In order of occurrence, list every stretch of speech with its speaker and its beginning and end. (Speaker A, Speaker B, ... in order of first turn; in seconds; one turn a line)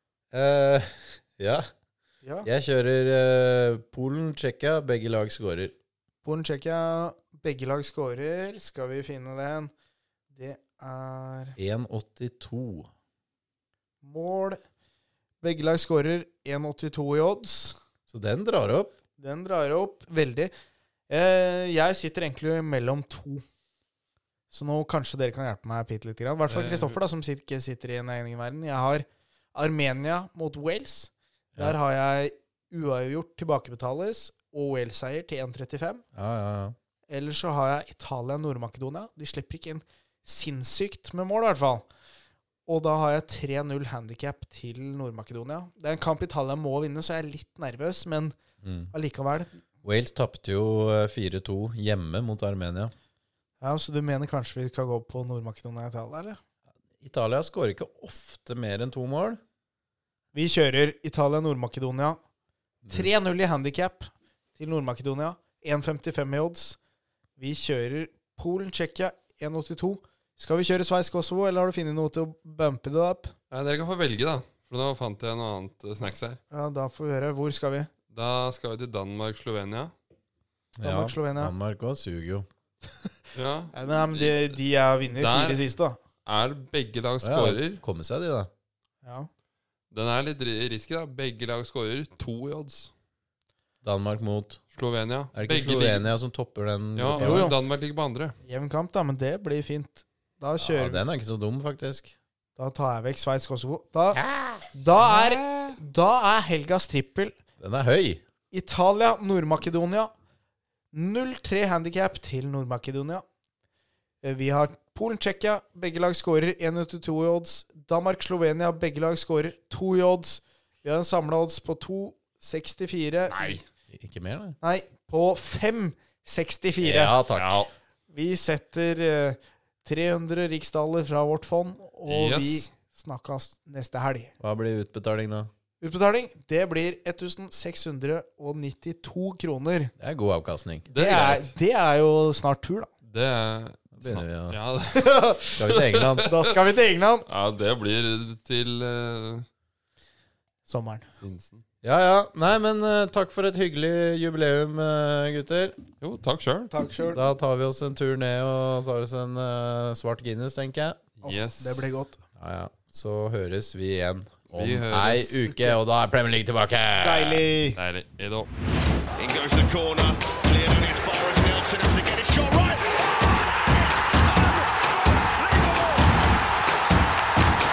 Speaker A: 0.3-1.7
Speaker A: 2.4-5.7
Speaker B: 6.2-9.7
Speaker B: 10.3-11.6
Speaker A: 11.6-12.9
Speaker B: 14.0-14.6
Speaker B: 15.4-17.8
Speaker A: 18.1-18.9
Speaker B: 19.2-20.5
Speaker B: 21.1-23.4
Speaker B: 24.5-36.0
Speaker C: 26.5-27.0
Speaker A: 36.1-36.8
Speaker B: 37.1-41.9
Speaker B: 42.7-48.3
Speaker A: 48.6-48.9
Speaker B: 48.9-49.6
Speaker A: 49.8-52.9
Speaker B: 53.6-56.4
Speaker A: 57.0-59.4
Speaker B: 60.3-62.2
Speaker A: 62.8-63.1
Speaker B: 62.9-66.8
Speaker B: 67.4-73.3
Speaker C: 73.5-76.4
Speaker B: 76.5-77.9
Speaker C: 78.1-79.9
Speaker A: 80.8-82.5
Speaker B: 80.8-81.5
Speaker C: 83.3-84.6
Speaker B: 83.7-86.0
Speaker C: 85.2-85.6
Speaker C: 86.2-87.8
Speaker A: 87.2-88.5
Speaker B: 89.0-89.3
Speaker C: 89.9-92.9
Speaker A: 93.8-94.6
Speaker C: 94.7-96.1
Speaker A: 95.3-97.5
Speaker C: 97.0-98.3
Speaker B: 97.1-97.6
Speaker B: 98.4-101.0
Speaker A: 100.6-102.1
Speaker B: 102.6-107.3
Speaker A: 104.2-104.6
Speaker A: 107.6-108.2
Speaker B: 108.5-110.1
Speaker B: 110.9-113.2
Speaker B: 114.2-123.6
Speaker C: 123.3-123.6
Speaker A: 123.9-124.6
Speaker B: 124.6-127.2
Speaker A: 126.8-127.6
Speaker C: 127.3-127.7
Speaker B: 128.1-134.3
Speaker C: 132.1-132.7
Speaker A: 134.4-135.5
Speaker B: 135.8-139.9
Speaker A: 140.0-140.9
Speaker C: 140.9-141.5
Speaker B: 140.9-142.9
Speaker C: 143.1-146.5
Speaker A: 143.9-144.6
Speaker B: 144.9-145.5
Speaker A: 145.5-146.3
Speaker B: 146.2-147.3
Speaker C: 147.3-149.5
Speaker B: 150.7-151.1
Speaker C: 151.2-151.6
Speaker A: 151.8-155.8
Speaker C: 156.0-156.7
Speaker B: 156.7-157.2
Speaker A: 157.1-161.0
Speaker C: 161.2-161.9
Speaker B: 161.2-162.2
Speaker A: 162.4-167.5
Speaker C: 164.5-165.4
Speaker B: 167.0-167.8
Speaker C: 167.7-168.5
Speaker D: 169.2-173.4
Speaker D: 173.9-176.0